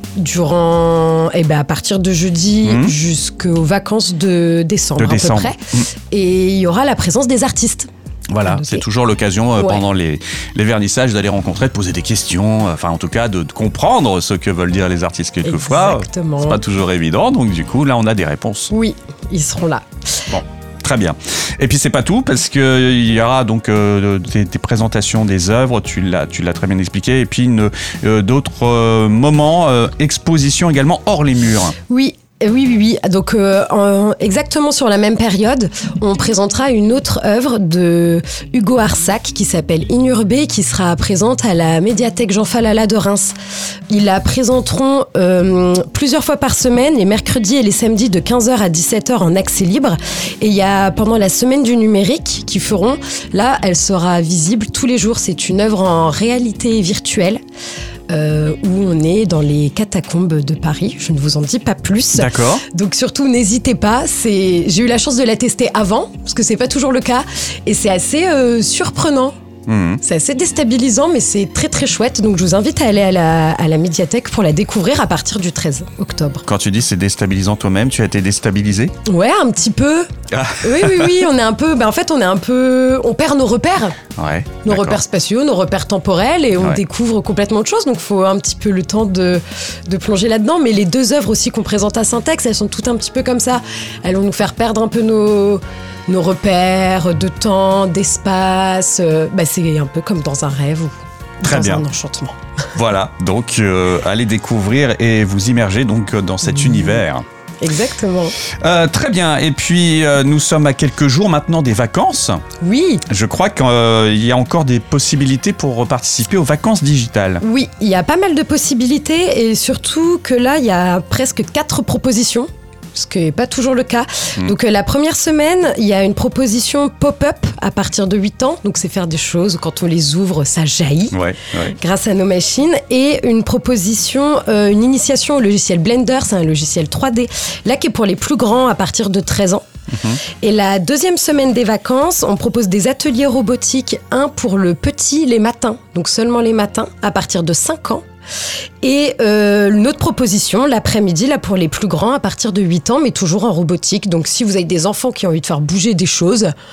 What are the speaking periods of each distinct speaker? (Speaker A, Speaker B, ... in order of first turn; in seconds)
Speaker A: 0.2-7.9, 8.4-8.8, 9.6-9.8, 15.4-16.6, 18.7-20.4, 31.9-43.3, 43.9-57.4, 58.1-69.3, 70.0-76.5, 79.0-80.1, 80.6-84.0, 84.6-102.4, 106.5-107.0, 107.6-108.3, 112.6-113.0, 117.4-139.7, 140.4-148.0, 148.8-156.5
Speaker B: 2.6-2.9, 5.0-5.8, 8.3-18.7, 20.3-31.7, 62.1-62.6, 69.7-70.0, 76.5-78.9, 80.3-81.3, 84.2-85.0, 101.4-101.8, 102.7-107.2, 108.6-112.4, 113.1-117.4, 131.1-131.7, 139.9-140.2